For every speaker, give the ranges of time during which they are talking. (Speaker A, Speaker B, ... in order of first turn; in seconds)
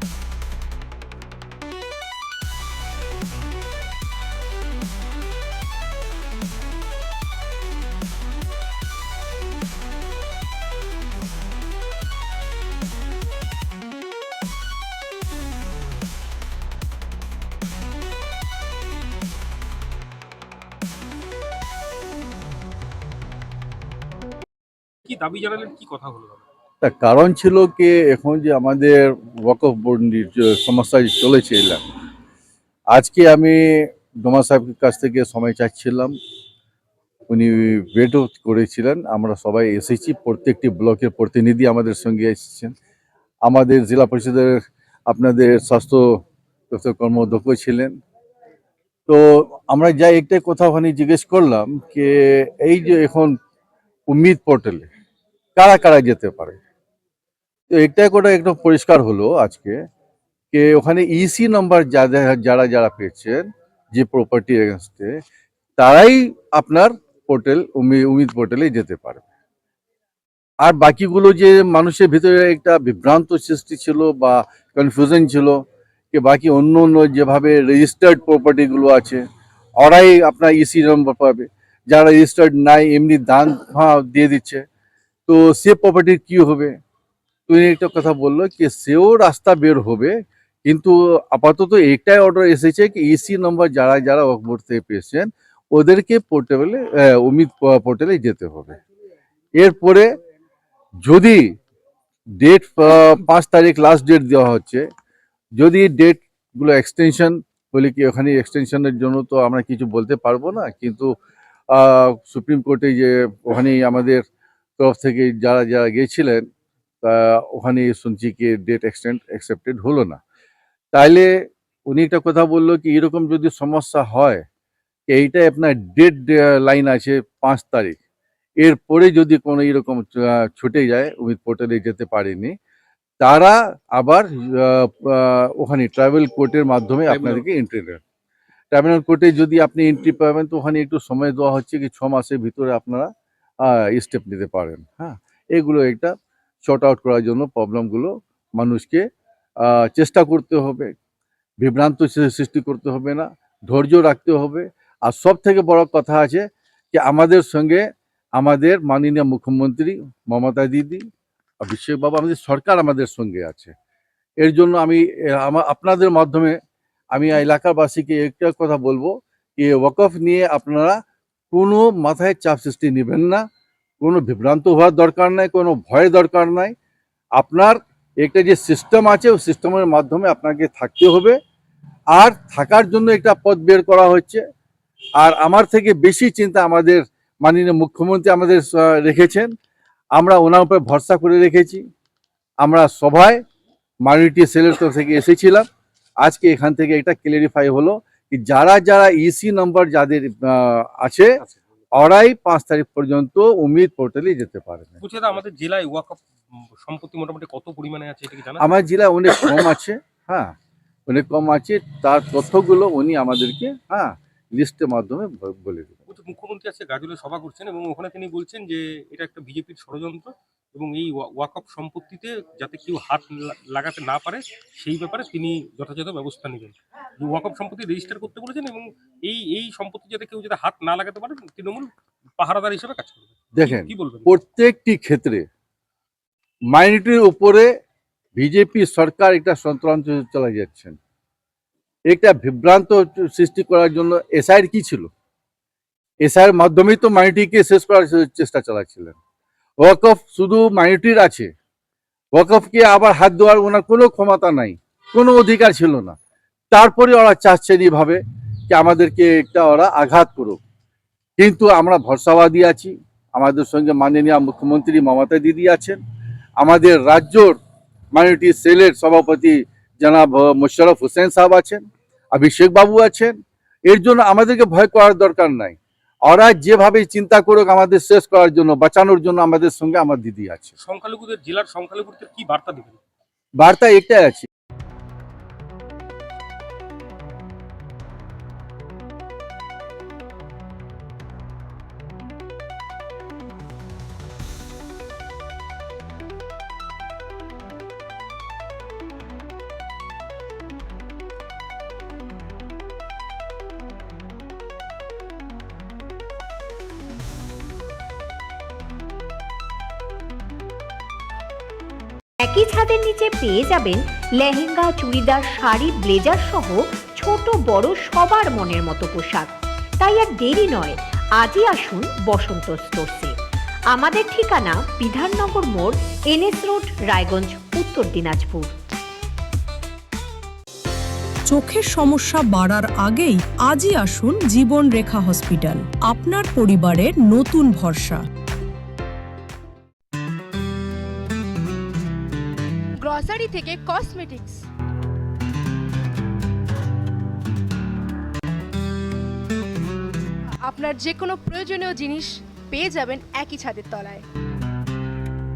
Speaker A: 25.1-26.4, 137.1-137.4, 205.0-208.7, 216.1-234.3, 280.8-283.0
Speaker B: 26.8-31.8, 32.9-36.1, 37.3-42.7, 43.4-47.9, 49.1-53.3, 54.1-54.9, 55.5-56.6, 57.7-59.8, 60.5-65.2, 65.8-69.2, 70.6-75.6, 76.1-79.2, 79.8-84.6, 85.3-86.7, 87.5-90.1, 90.7-98.8, 99.6-100.1, 101.0-101.4, 102.4-104.8, 105.6-111.1, 111.7-114.2, 114.8-116.4, 117.0-120.2, 120.9-121.3, 121.9-124.4, 125.1-128.0, 128.6-132.5, 133.2-138.0, 138.7-143.1, 143.6-146.1, 146.6-149.0, 149.6-150.9, 151.6-157.8, 158.4-161.0, 161.6-163.7, 164.4-166.6, 167.1-170.9, 171.5-173.4, 174.0-176.7, 177.3-181.4, 182.1-184.4, 185.2-189.5, 190.1-191.8, 192.6-193.4, 194.0-195.6, 196.2-201.3, 201.9-205.0, 208.6-210.5, 211.1-216.0, 233.6-235.4, 236.7-237.7, 238.3-241.0, 242.1-245.1, 246.2-249.2, 249.8-251.5, 252.3-256.1, 256.7-260.6, 261.4-266.0, 266.6-267.6, 268.1-280.7, 283.6-284.5
Speaker C: 312.4-323.3, 323.9-328.7
Speaker D: 331.5-338.2
Speaker E: 343.0-344.6, 350.6-354.2